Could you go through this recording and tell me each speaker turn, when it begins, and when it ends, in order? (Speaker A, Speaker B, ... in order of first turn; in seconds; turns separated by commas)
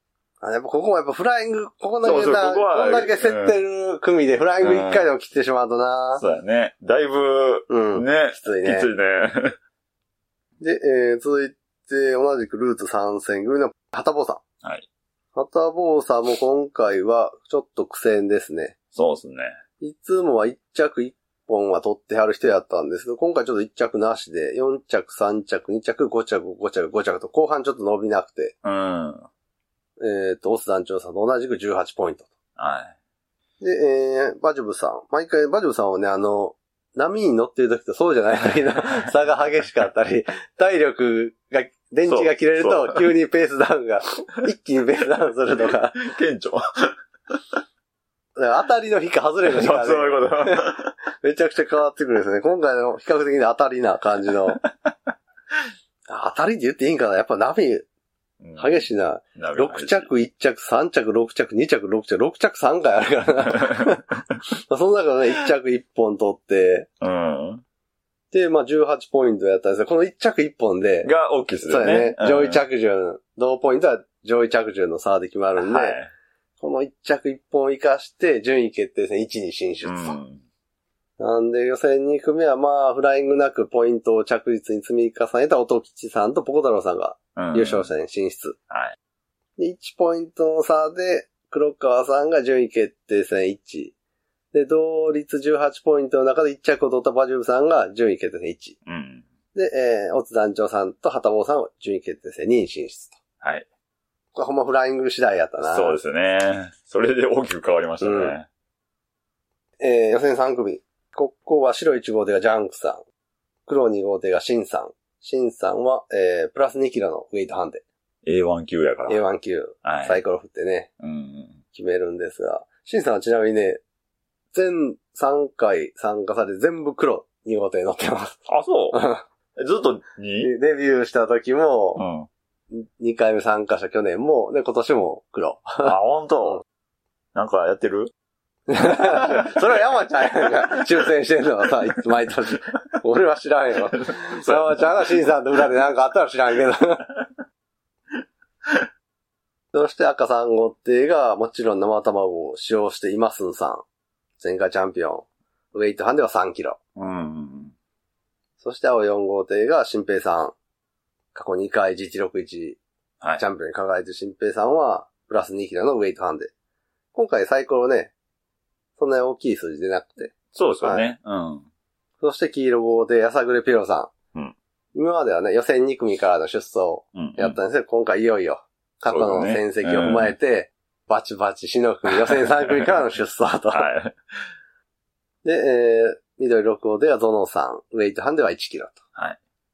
Speaker A: 0.4-6.2, Speaker B: 2.0-3.5, Speaker B: 4.6-5.0, Speaker B: 6.2-9.6, Speaker A: 7.7-8.9, Speaker A: 10.6-14.4, Speaker A: 15.3-18.7, Speaker B: 18.9-19.5, Speaker A: 19.8-28.5, Speaker B: 28.6-29.3, Speaker A: 30.0-32.3, Speaker B: 32.6-32.9, Speaker A: 33.6-46.0, Speaker B: 42.1-43.1, Speaker B: 45.9-47.4, Speaker A: 48.4-54.6, Speaker B: 49.4-50.9, Speaker B: 54.6-55.0, Speaker A: 56.1-57.9, Speaker B: 58.4-60.1, Speaker A: 58.6-64.1, Speaker B: 63.7-64.0, Speaker A: 64.7-66.9, Speaker B: 67.0-67.6, Speaker A: 68.3-71.1, Speaker B: 71.0-72.6, Speaker A: 71.6-76.0, Speaker B: 75.6-76.1, Speaker A: 76.6-80.2, Speaker B: 79.8-80.4, Speaker A: 81.2-88.5, Speaker B: 87.3-87.9, Speaker B: 88.7-89.0, Speaker A: 89.6-93.9, Speaker A: 94.5-98.8, Speaker B: 98.8-99.2, Speaker A: 99.5-103.2, Speaker A: 104.3-106.0, Speaker B: 105.6-108.5, Speaker A: 108.0-108.3, Speaker A: 109.8-113.0, Speaker A: 113.7-117.8, Speaker B: 118.2-119.2, Speaker A: 119.1-120.9, Speaker B: 119.8-120.2, Speaker B: 121.0-121.6, Speaker A: 121.7-123.8, Speaker A: 124.5-128.4, Speaker B: 128.5-129.0, Speaker A: 128.9-129.2, Speaker B: 129.6-130.5, Speaker A: 130.4-132.0, Speaker B: 131.9-132.3, Speaker A: 132.7-135.9, Speaker B: 135.8-136.6, Speaker B: 137.3-138.1, Speaker A: 138.7-147.1, Speaker B: 138.9-139.6, Speaker B: 143.9-145.1, Speaker A: 149.7-153.8, Speaker A: 154.4-156.8, Speaker B: 156.9-157.7, Speaker A: 158.6-160.5, Speaker A: 161.3-162.8, Speaker A: 163.4-166.5, Speaker A: 167.1-168.1, Speaker A: 169.0-171.1, Speaker B: 170.5-171.7, Speaker A: 172.2-174.1, Speaker A: 174.9-183.9, Speaker B: 177.1-177.6, Speaker B: 179.1-180.3, Speaker B: 182.3-182.9, Speaker B: 183.7-184.2, Speaker A: 185.4-189.0